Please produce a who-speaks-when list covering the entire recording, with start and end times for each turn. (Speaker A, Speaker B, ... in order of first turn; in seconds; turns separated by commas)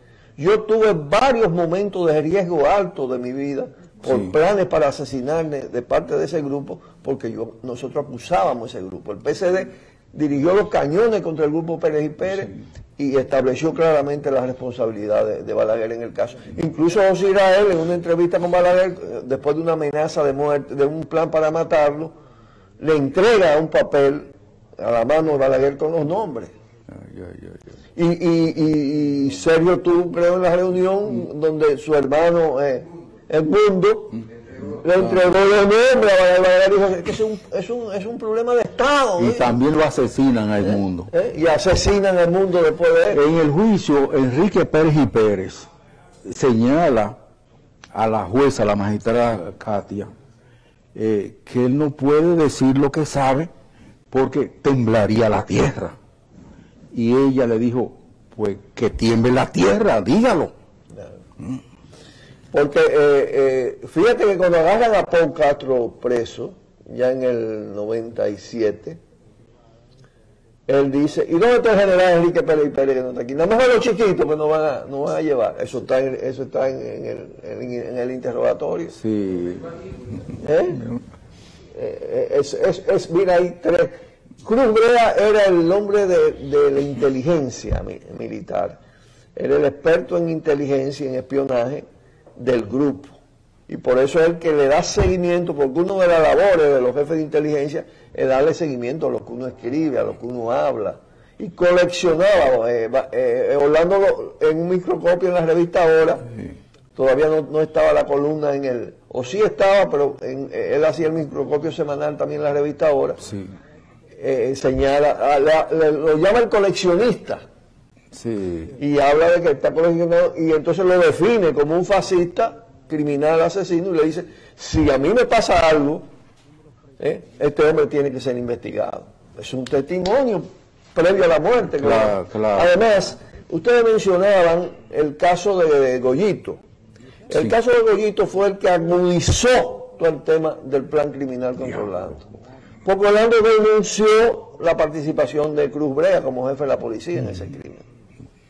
Speaker A: 0.4-22.1, Speaker B: 4.0-4.3, Speaker A: 22.8-26.5, Speaker B: 26.9-27.7, Speaker A: 27.9-34.1, Speaker B: 34.2-35.3, Speaker A: 34.8-39.6, Speaker B: 39.2-41.1, Speaker A: 40.6-43.2, Speaker B: 43.1-45.7, Speaker B: 46.2-47.2, Speaker B: 47.9-50.1, Speaker B: 50.9-53.5, Speaker B: 54.1-56.0, Speaker B: 56.9-60.5, Speaker A: 62.5-69.0, Speaker A: 70.7-79.0, Speaker B: 78.9-79.8, Speaker A: 80.4-80.8, Speaker B: 80.7-81.0, Speaker A: 81.7-88.8, Speaker A: 89.3-91.8, Speaker A: 92.4-93.1, Speaker A: 93.7-106.2, Speaker A: 107.0-113.2, Speaker B: 113.2-113.5, Speaker A: 114.2-117.4, Speaker B: 118.1-118.7, Speaker A: 118.8-126.0, Speaker A: 127.0-136.6, Speaker B: 131.8-132.7, Speaker A: 137.3-142.2, Speaker B: 141.6-141.9, Speaker A: 142.8-147.8